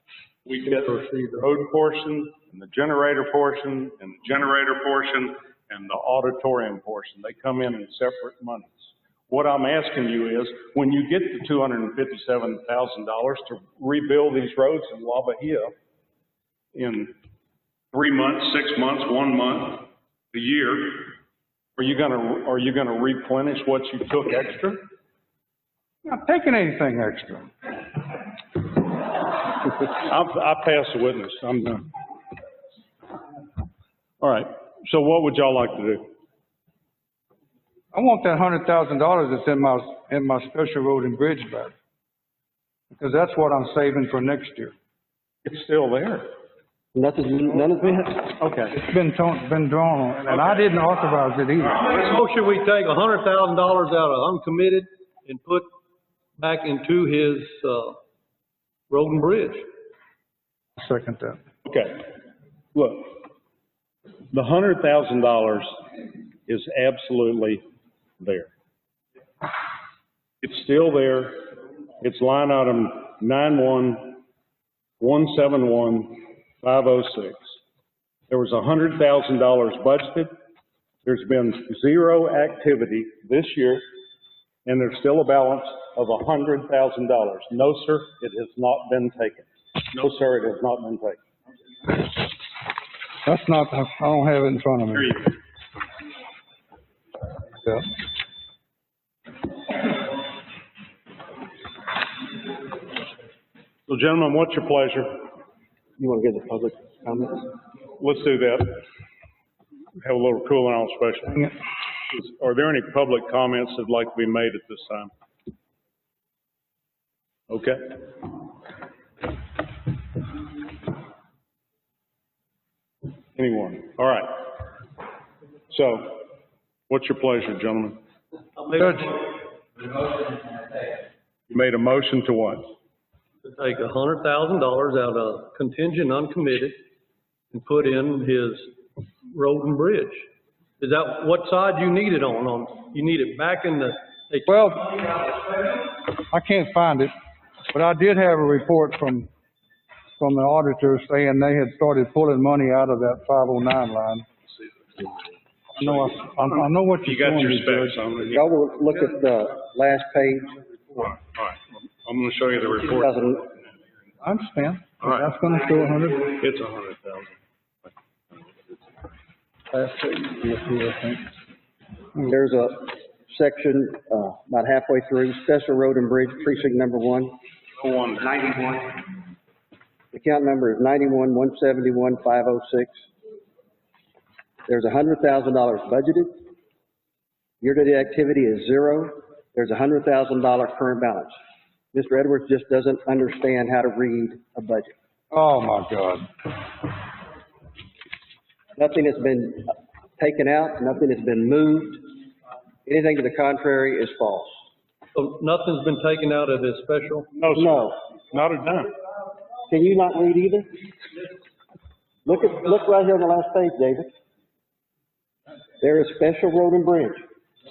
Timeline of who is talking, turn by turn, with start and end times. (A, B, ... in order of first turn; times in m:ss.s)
0:00.5-0:15.7 A
0:16.7-0:17.1 A
0:17.9-0:21.2 A
0:21.8-0:24.8 A
0:26.0-0:27.5 B
0:29.7-0:31.9 A
0:34.2-0:36.1 A
0:37.9-0:41.7 B
0:42.9-0:44.7 B
0:45.4-0:46.3 A
0:47.0-0:48.4 C
0:48.4-0:48.7 A
0:48.7-0:51.8 B
0:51.8-0:55.7 D
0:56.4-0:58.0 D
0:58.9-0:59.7 D
1:00.8-1:01.4 B
1:01.6-1:02.2 A
1:02.8-1:03.2 A
1:04.3-1:05.8 A
1:06.5-1:07.6 A
1:08.2-1:08.5 A
1:10.4-1:11.4 A
1:12.0-1:14.2 A
1:15.0-1:17.6 A
1:18.3-1:20.3 A
1:21.0-1:23.8 A
1:24.7-1:31.2 A
1:33.2-1:35.3 B
1:43.9-1:45.3 A
1:46.0-1:47.5 C
1:48.0-1:48.8 A
1:50.0-1:51.6 A
1:52.1-1:55.1 A
1:57.5-1:58.0 A
2:03.4-2:04.5 A
2:05.7-2:06.3 A
2:06.9-2:08.0 A
2:08.6-2:09.2 D
2:11.5-2:12.7 A
2:13.4-2:16.8 D
2:17.5-2:20.3 D
2:20.8-2:24.7 D
2:24.5-2:25.2 B
2:26.1-2:27.1 B
2:27.7-2:29.3 B
2:30.2-2:34.3 B
2:35.8-2:38.1 B
2:36.1-2:38.4 A
2:38.3-2:40.6 C
2:41.0-2:43.6 A
2:43.0-2:43.4 C
2:44.2-2:46.4 B
2:45.0-2:45.3 A
2:46.4-2:47.4 A
2:49.7-2:51.2 B
2:52.2-2:57.4 C
2:57.8-2:58.3 A
2:58.2-2:59.0 C
3:00.1-3:03.0 C
3:04.7-3:06.4 C
3:07.6-3:11.4 C
3:11.9-3:14.9 C
3:15.3-3:16.3 B
3:18.8-3:22.0 C
3:22.9-3:24.6 C
3:25.1-3:27.3 D
3:27.4-3:28.9 A
3:27.5-3:28.0 C
3:29.7-3:30.8 C
3:32.2-3:34.1 C
3:35.8-3:37.2 C